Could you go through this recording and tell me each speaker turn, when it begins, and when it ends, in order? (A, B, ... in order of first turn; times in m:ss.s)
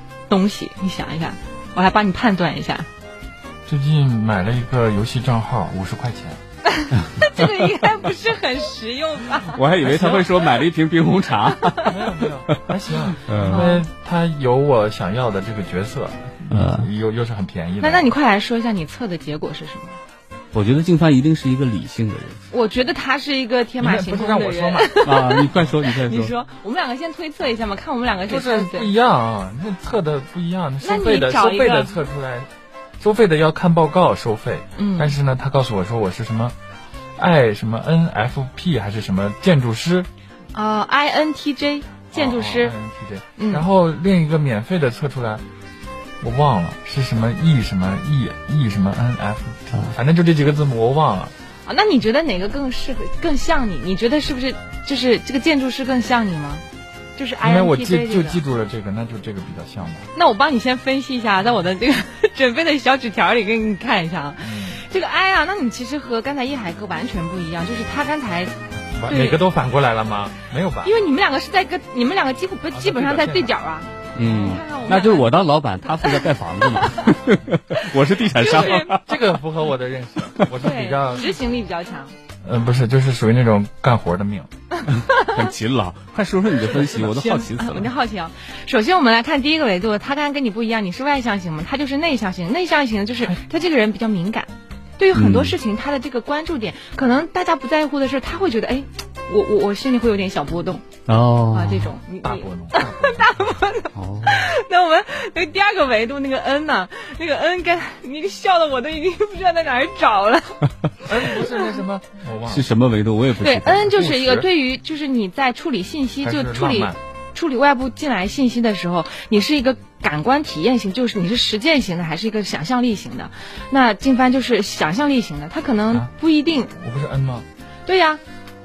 0:00.3-0:02.9 A
0:03.6-0:06.4 B
0:06.7-0:09.6 A
0:07.0-0:07.2 C
0:09.5-0:12.0 C
0:09.8-0:10.3 B
0:11.5-0:11.9 A
0:11.8-0:18.1 B
0:13.2-0:13.7 C
0:13.5-0:13.8 A
0:16.5-0:16.9 C
0:17.8-0:20.0 A
0:20.5-0:22.4 C
0:22.5-0:28.9 A
0:23.8-0:25.0 B
0:25.0-0:26.3 C
0:28.3-0:36.5 B
0:30.8-0:31.9 A
0:34.8-0:35.1 A
0:37.2-0:40.1 B
0:40.5-0:42.7 A
0:42.1-0:45.4 B
0:43.4-0:43.6 A
0:46.2-0:51.3 B
0:51.6-0:56.6 A
0:57.2-0:58.4 A
0:57.4-1:00.1 B
1:00.1-1:08.5 A
1:04.4-1:04.8 B
1:08.9-1:10.9 B
1:09.0-1:09.4 A
1:10.8-1:17.1 A
1:12.7-1:13.5 B
1:14.2-1:19.2 C
1:17.7-1:18.9 A
1:18.4-1:21.3 B
1:20.6-1:22.2 A
1:22.4-1:24.5 B
1:24.8-1:25.4 A
1:24.9-1:27.9 C
1:26.7-1:40.8 A
1:35.1-1:35.6 C
1:41.1-1:41.9 C
1:41.5-1:51.6 A
1:42.2-1:43.6 B
1:43.9-1:44.5 C
1:51.0-1:52.7 B
1:52.5-1:54.0 C
1:53.4-2:06.7 A
1:53.9-1:54.5 B
1:56.2-1:57.0 B
2:06.7-2:07.4 B
2:07.8-2:08.2 A